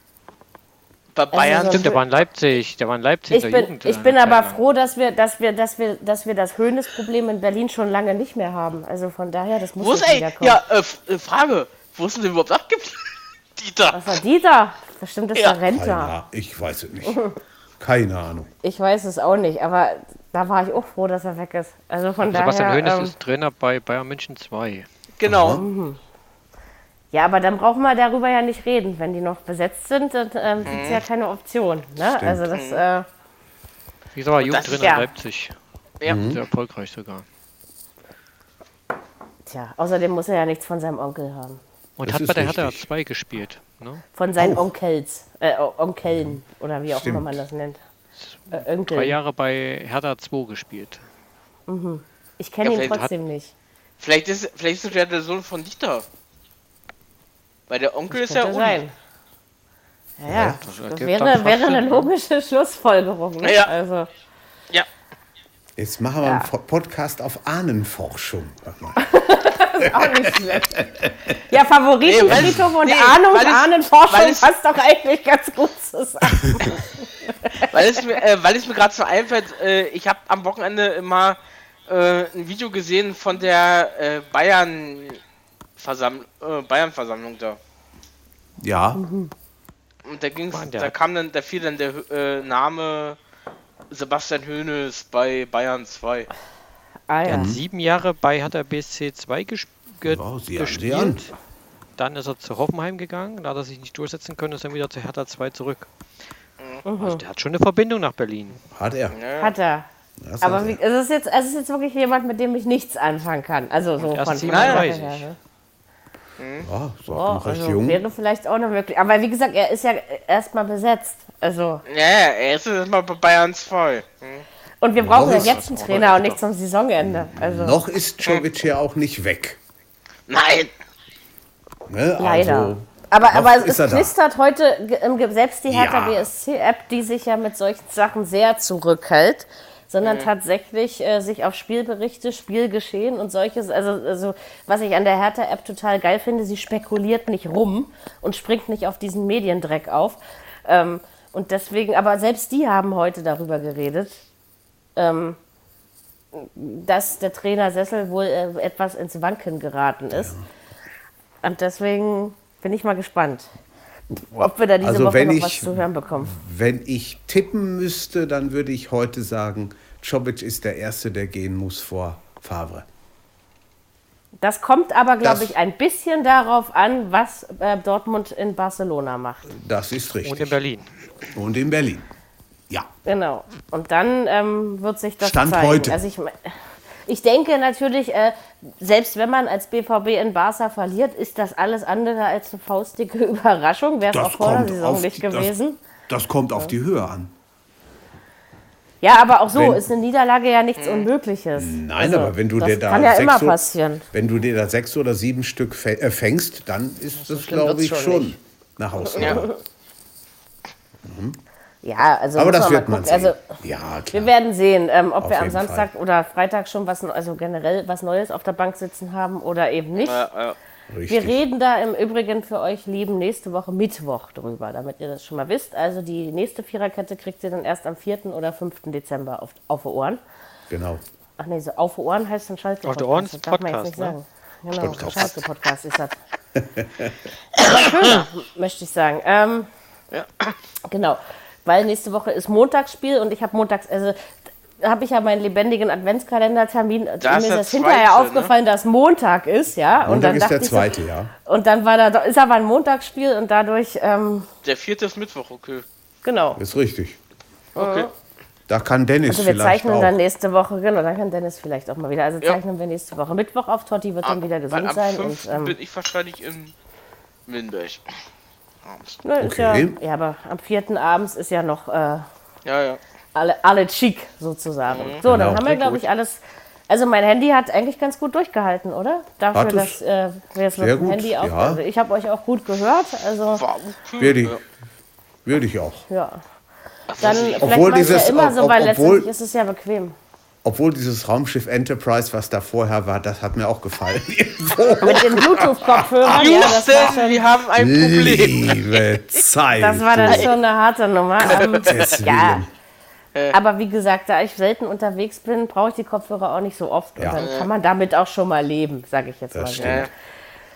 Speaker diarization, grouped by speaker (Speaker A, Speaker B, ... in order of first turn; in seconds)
Speaker A: 1.1-2.0, 9.8-14.0, 25.2-25.6, 30.6-31.0, 32.5-32.8, 34.4-34.9, 52.6-53.1, 54.0-56.0, 57.7-58.8, 63.4-63.7, 72.0-74.5, 77.6-85.2, 85.8-87.6, 90.0-93.2, 93.9-96.3, 109.1-109.5, 114.5-114.9, 116.4-116.7, 121.9-124.4, 130.3-130.7, 140.0-140.3, 200.8-201.1, 219.9-220.6, 237.6-238.2, 240.1-240.5, 247.2-248.5, 254.6-255.8, 257.8-258.1, 264.2-266.7, 267.5-268.0, 268.8-269.2, 272.6-273.0, 274.9-275.2, 283.5-284.6, 287.1-288.3, 296.3-299.4, 300.2-300.5, 301.4-302.1, 307.4-307.7, 309.8-310.1
Speaker B: 1.3-2.0, 3.3-10.6, 13.9-16.1, 17.1-17.3, 18.6-23.1, 25.5-26.0, 27.1-33.1, 34.8-35.0, 39.5-41.6, 44.1-47.8, 48.5-49.2, 51.7-53.5, 58.1-58.9, 60.2-64.1, 69.0-70.8, 71.4-77.7, 88.9-89.3, 97.1-97.5, 106.8-107.2, 109.4-109.9, 110.4-115.4, 117.1-121.8, 124.8-127.8, 132.2-154.2, 154.9-155.4, 156.3-160.3, 161.4-163.5, 164.3-166.3, 174.4-179.5, 183.0-195.8, 199.0-204.0, 207.2-208.4, 209.0-209.6, 211.8-213.4, 214.1-220.2, 221.1-230.2, 231.4-236.2, 237.6-239.7, 240.9-254.5, 256.2-256.6, 257.8-258.1, 259.3-265.8, 269.2-272.2, 273.3-283.6, 286.1-286.4, 287.2-290.1, 295.0-297.4, 299.7-302.6, 303.5-310.1
Speaker C: 1.7-4.6, 22.2-24.9, 34.1-35.5, 36.1-37.2, 42.0-44.0, 48.2-51.0, 60.6-62.1, 90.5-90.9, 97.2-101.3, 102.0-105.9, 107.0-108.6, 114.0-115.2, 125.1-126.4, 180.2-180.9, 232.8-234.2, 234.8-235.4
Speaker D: 15.7-17.2, 17.8-18.5, 25.2-25.6, 32.1-32.4, 36.0-36.4, 42.0-42.9, 44.4-44.7, 46.1-46.4, 46.9-47.3, 60.2-60.6, 65.8-69.0, 69.8-71.3, 72.2-72.7, 88.6-89.0, 97.3-97.6, 100.0-101.3, 108.7-109.2, 110.2-110.8, 116.6-118.0, 125.0-125.6, 127.0-129.6, 131.9-134.1, 135.7-136.3, 160.1-160.4, 164.4-172.8, 175.2-175.6, 179.5-180.6, 181.3-182.1, 185.2-186.0, 194.1-195.5, 196.1-197.3, 199.5-199.8, 201.6-203.6, 204.1-209.5, 211.0-211.4, 212.3-214.3, 215.2-215.9, 220.9-221.4, 230.7-231.0, 234.8-235.4, 236.6-237.1, 250.0-251.3, 256.6-257.2, 258.7-260.1, 269.4-270.0, 275.2-276.0, 279.5-280.0, 280.8-281.8, 284.2-284.6, 285.4-286.1, 287.6-289.3, 290.6-297.1, 297.7-300.5, 301.7-302.7, 307.2-307.4, 309.5-310.1